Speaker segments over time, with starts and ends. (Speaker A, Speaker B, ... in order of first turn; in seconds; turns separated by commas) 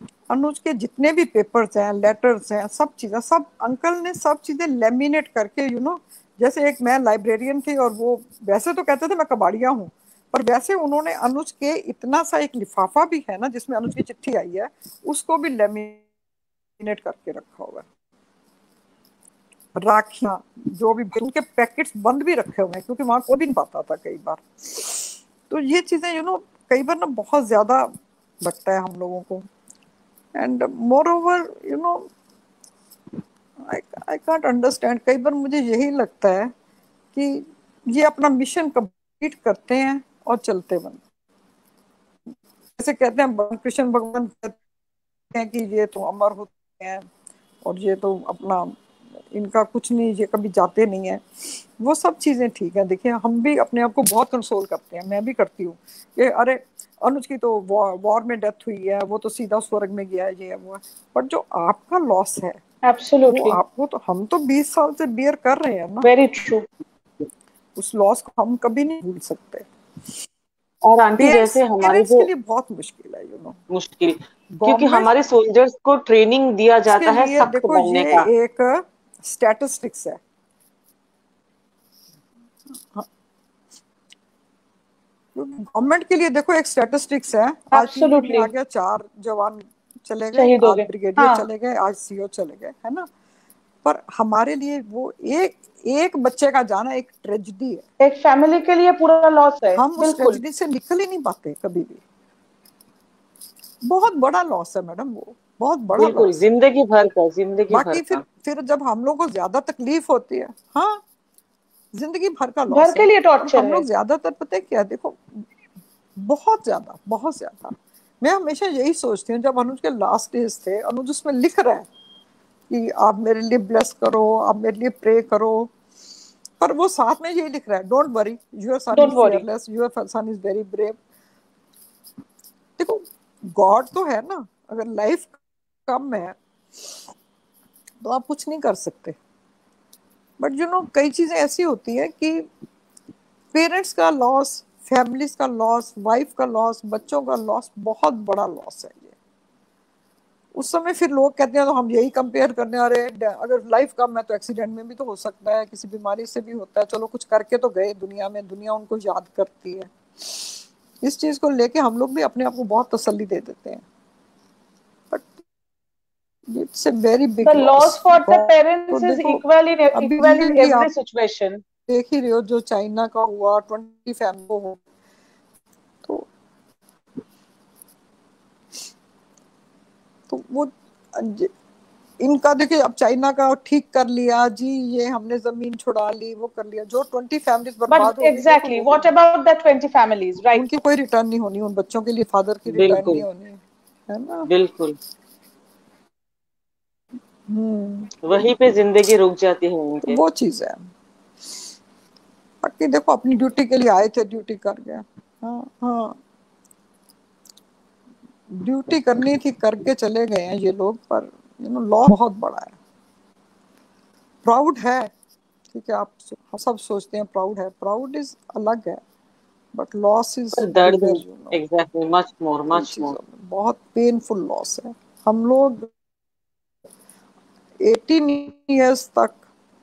Speaker A: 0.3-16.0, Speaker A: 16.8-17.9, Speaker A: 19.7-29.4, Speaker A: 30.4-32.1, Speaker A: 33.6-36.5, Speaker A: 37.1-41.0, Speaker A: 42.8-44.6, Speaker A: 45.3-47.0, Speaker A: 47.6-48.7, Speaker A: 49.3-62.6, Speaker B: 62.8-63.6, Speaker A: 63.3-66.1, Speaker B: 66.0-66.6, Speaker A: 67.8-69.7, Speaker C: 70.8-72.3, Speaker A: 71.2-73.6, Speaker C: 73.7-78.3, Speaker A: 74.5-75.1, Speaker A: 76.8-80.2, Speaker A: 85.3-93.1, Speaker B: 87.7-88.5, Speaker B: 90.3-91.4, Speaker A: 93.8-97.8, Speaker B: 98.0-100.4, Speaker A: 99.7-102.0, Speaker A: 103.8-106.4, Speaker C: 106.0-108.2, Speaker A: 107.7-111.0, Speaker A: 111.9-115.5, Speaker B: 112.7-113.8, Speaker A: 116.2-121.9, Speaker A: 122.7-125.7, Speaker A: 126.6-131.0, Speaker B: 128.9-129.4, Speaker A: 132.8-135.3, Speaker A: 135.9-136.3, Speaker A: 138.0-139.2, Speaker A: 140.4-142.4, Speaker A: 143.5-149.2, Speaker A: 150.5-163.8, Speaker A: 166.5-169.4, Speaker B: 167.4-171.6, Speaker A: 169.9-170.9, Speaker A: 171.9-174.8, Speaker A: 180.3-181.5, Speaker A: 182.2-189.1, Speaker B: 187.9-190.7, Speaker A: 190.5-194.5, Speaker C: 192.7-193.2, Speaker C: 194.5-195.0, Speaker A: 197.5-198.1, Speaker C: 198.2-200.2, Speaker A: 200.0-200.8, Speaker A: 202.6-206.2, Speaker A: 208.5-212.8, Speaker A: 214.4-215.1, Speaker A: 215.7-219.0, Speaker A: 219.7-221.6, Speaker C: 220.5-223.2, Speaker A: 222.7-225.9, Speaker A: 227.8-229.4